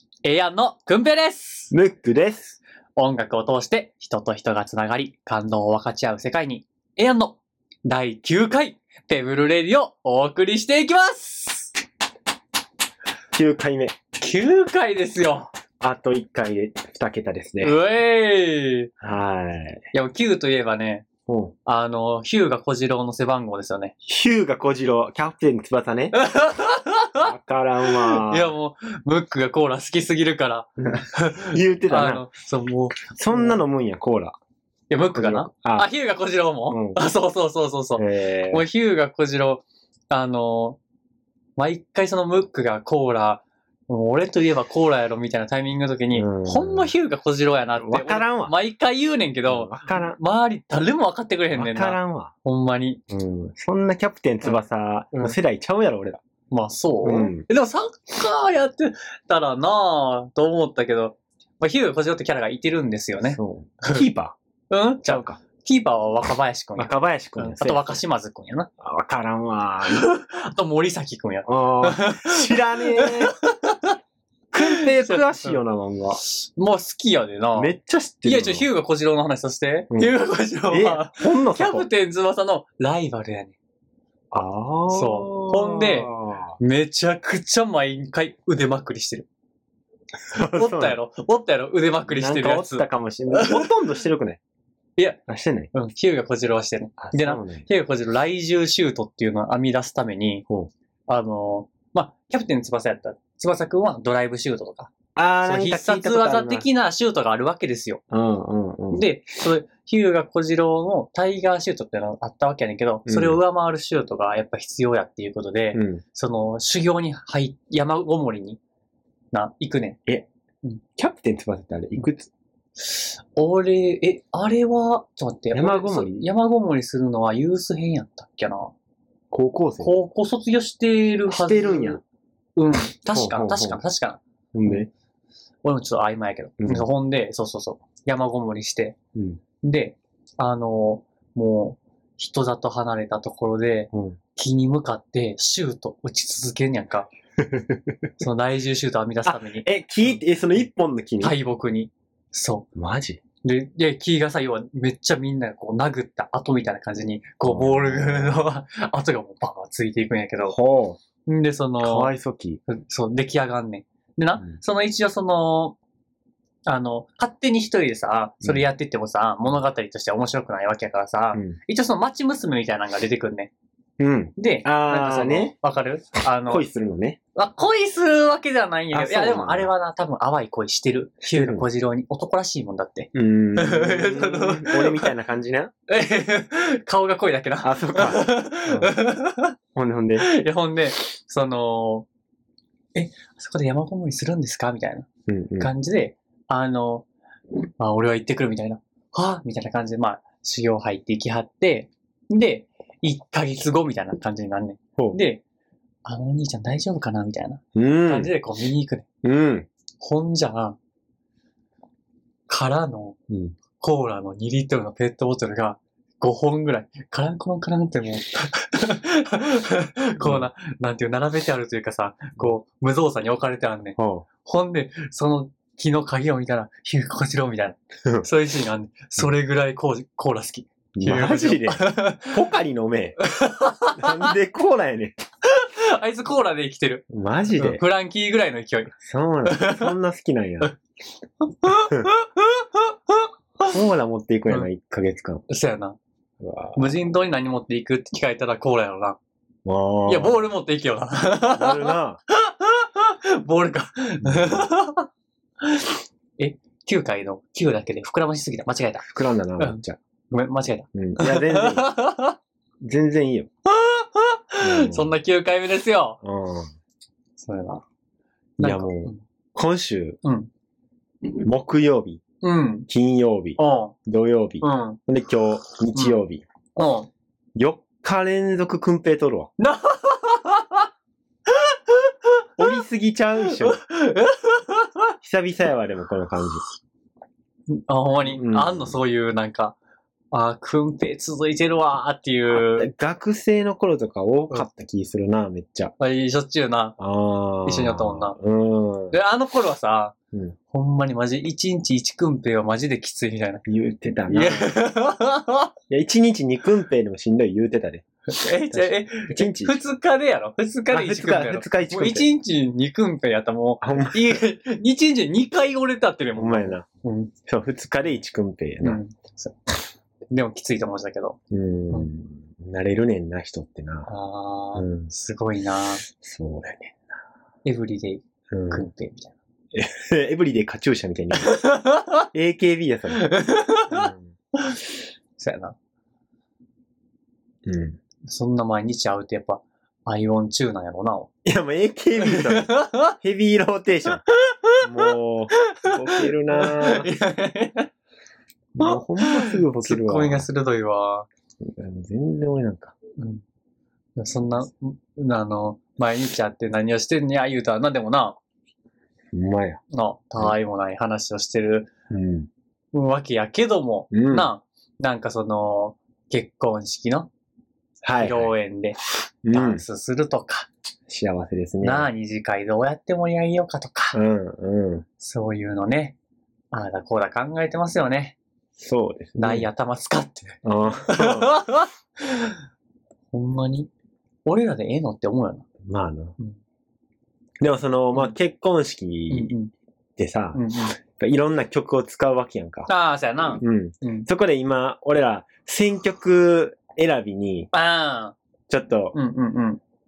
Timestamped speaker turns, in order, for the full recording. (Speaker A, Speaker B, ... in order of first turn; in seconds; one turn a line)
Speaker A: 0.2-1.7
Speaker B: 1.7-2.6
Speaker A: 3.0-11.7
Speaker B: 13.3-14.0
Speaker A: 14.2-15.5
Speaker B: 15.8-17.8
Speaker A: 17.6-18.9
Speaker B: 19.0-19.8
Speaker A: 19.9-21.1
Speaker B: 21.3-21.5
Speaker A: 21.7-23.9
Speaker B: 24.1-26.2
Speaker A: 26.1-27.3
Speaker B: 27.2-28.5
Speaker A: 27.9-33.6
Speaker B: 31.0-32.3
Speaker B: 33.1-34.4
Speaker A: 34.9-40.8
Speaker B: 35.1-35.9
Speaker B: 36.7-37.0
Speaker B: 38.0-38.6
Speaker A: 41.6-53.0
Speaker B: 46.1-46.9
Speaker B: 47.8-48.5
Speaker B: 49.5-50.2
Speaker B: 51.5-52.3
Speaker B: 53.1-56.2
Speaker A: 56.5-64.1
Speaker B: 57.0-57.5
Speaker B: 63.2-64.4
Speaker A: 64.7-68.7
Speaker B: 65.0-65.4
Speaker B: 66.8-68.0
Speaker B: 68.8-70.1
Speaker A: 69.9-74.0
Speaker B: 71.5-73.3
Speaker B: 74.5-76.2
Speaker A: 74.6-75.6
Speaker A: 76.3-77.7
Speaker B: 77.6-78.7
Speaker A: 78.2-83.6
Speaker B: 80.7-81.9
Speaker B: 84.3-86.6
Speaker A: 84.9-89.3
Speaker B: 90.3-91.0
Speaker A: 90.4-93.7
Speaker B: 92.1-94.4
Speaker B: 95.3-95.7
Speaker A: 95.7-100.5
Speaker B: 97.0-97.7
Speaker A: 101.1-104.9
Speaker B: 105.2-106.7
Speaker A: 105.4-108.0
Speaker B: 108.1-109.1
Speaker A: 108.9-118.6
Speaker B: 113.1-113.4
Speaker B: 115.7-116.0
Speaker A: 119.3-120.0
Speaker B: 121.0-122.3
Speaker A: 122.8-128.7
Speaker B: 125.5-126.3
Speaker B: 129.3-129.9
Speaker A: 129.8-132.0
Speaker B: 131.3-132.0
Speaker A: 132.6-134.8
Speaker B: 133.1-133.8
Speaker B: 134.5-134.9
Speaker A: 135.6-139.0
Speaker B: 136.6-136.9
Speaker B: 139.2-139.4
Speaker A: 139.6-147.1
Speaker B: 143.9-144.2
Speaker B: 147.4-147.8
Speaker A: 148.2-150.2
Speaker B: 149.2-151.4
Speaker A: 151.2-152.7
Speaker B: 152.8-153.2
Speaker A: 153.4-160.6
Speaker B: 157.4-158.4
Speaker B: 160.5-161.0
Speaker A: 161.3-162.1
Speaker B: 161.8-162.6
Speaker A: 162.7-165.8
Speaker A: 166.7-173.5
Speaker B: 174.0-175.6
Speaker A: 174.4-176.6
Speaker B: 176.5-177.2
Speaker A: 177.3-185.1
Speaker B: 178.9-179.7
Speaker B: 181.3-181.7
Speaker B: 183.1-185.7
Speaker A: 185.9-189.6
Speaker B: 187.6-189.0
Speaker B: 189.8-190.3
Speaker A: 190.2-192.1
Speaker A: 192.9-195.1
Speaker B: 195.3-195.7
Speaker A: 195.6-197.1
Speaker A: 197.8-205.4
Speaker A: 206.1-209.1
Speaker B: 207.8-208.3
Speaker B: 209.2-209.7
Speaker A: 210.0-210.8
Speaker A: 212.5-213.2
Speaker B: 213.3-213.6
Speaker A: 213.8-232.4
Speaker B: 220.2-220.5
Speaker B: 224.0-224.3
Speaker B: 230.9-233.2
Speaker A: 233.2-234.3
Speaker B: 233.9-235.2
Speaker A: 235.5-237.0
Speaker B: 237.1-237.8
Speaker A: 237.6-238.9
Speaker B: 239.0-240.7
Speaker A: 239.4-239.9
Speaker A: 241.4-243.8
Speaker B: 241.8-242.1
Speaker B: 243.7-245.4
Speaker A: 245.5-246.0
Speaker B: 246.4-246.9
Speaker A: 246.8-249.2
Speaker B: 249.7-250.4
Speaker A: 250.1-255.1
Speaker B: 251.5-252.2
Speaker B: 254.2-254.7
Speaker A: 255.6-259.1
Speaker B: 259.0-260.0
Speaker A: 259.6-262.4
Speaker B: 260.9-261.9
Speaker B: 262.8-263.5
Speaker A: 263.7-266.2
Speaker B: 264.6-265.1
Speaker B: 266.2-266.7
Speaker A: 267.4-267.8
Speaker B: 268.6-270.2
Speaker A: 268.6-269.2
Speaker A: 270.2-270.5
Speaker B: 271.4-272.2
Speaker A: 272.4-272.9
Speaker B: 272.9-276.4
Speaker A: 273.6-273.9
Speaker A: 274.6-275.0
Speaker A: 276.8-277.1
Speaker B: 277.6-279.5
Speaker A: 279.6-280.9
Speaker A: 281.5-282.8
Speaker B: 282.6-283.8
Speaker A: 283.4-285.1
Speaker B: 285.2-286.6
Speaker A: 287.7-289.8
Speaker B: 288.3-289.0
Speaker A: 290.3-292.9
Speaker B: 292.5-295.9
Speaker A: 296.0-297.0
Speaker B: 297.0-299.2
Speaker A: 297.6-298.4
Speaker A: 299.1-300.2
Speaker A: 300.7-303.6
Speaker B: 303.7-304.7
Speaker A: 304.3-305.7
Speaker B: 305.9-308.1
Speaker A: 308.3-317.3
Speaker B: 308.7-309.8
Speaker B: 310.9-312.3
Speaker B: 313.8-314.4
Speaker B: 316.4-316.9
Speaker B: 317.4-319.0
Speaker A: 318.8-319.6
Speaker A: 320.3-321.4
Speaker B: 321.5-324.1
Speaker A: 324.1-326.1
Speaker B: 324.8-325.1
Speaker B: 326.1-327.1
Speaker A: 327.6-329.4
Speaker B: 328.5-328.9
Speaker B: 329.7-331.7
Speaker A: 331.4-332.3
Speaker B: 332.3-333.3
Speaker A: 333.1-334.8
Speaker B: 333.9-334.3
Speaker A: 335.4-335.8
Speaker B: 337.6-338.0
Speaker A: 338.2-341.3
Speaker B: 341.4-344.2
Speaker A: 342.2-343.2
Speaker A: 344.3-347.9
Speaker B: 344.8-347.1
Speaker B: 348.8-350.5
Speaker A: 348.8-351.3
Speaker B: 351.6-353.0
Speaker A: 353.2-353.4
Speaker A: 354.2-358.4
Speaker B: 359.3-359.8
Speaker A: 359.9-361.9
Speaker B: 362.1-362.5
Speaker A: 362.9-367.3
Speaker B: 364.1-364.5
Speaker B: 368.0-368.5
Speaker A: 368.1-369.0
Speaker B: 369.4-369.8
Speaker A: 369.5-370.7
Speaker B: 371.1-372.1
Speaker A: 371.8-374.2
Speaker B: 374.1-375.1
Speaker A: 375.2-376.2
Speaker A: 376.7-378.4
Speaker B: 378.8-379.7
Speaker A: 379.4-382.6
Speaker B: 380.6-381.6
Speaker A: 383.3-383.9
Speaker A: 384.4-385.7
Speaker B: 385.8-386.4
Speaker B: 387.6-389.5
Speaker A: 389.3-389.7
Speaker B: 390.2-392.9
Speaker A: 390.5-391.0
Speaker A: 392.9-394.3
Speaker B: 393.5-397.7
Speaker A: 397.7-398.4
Speaker B: 398.7-399.2
Speaker A: 399.1-399.8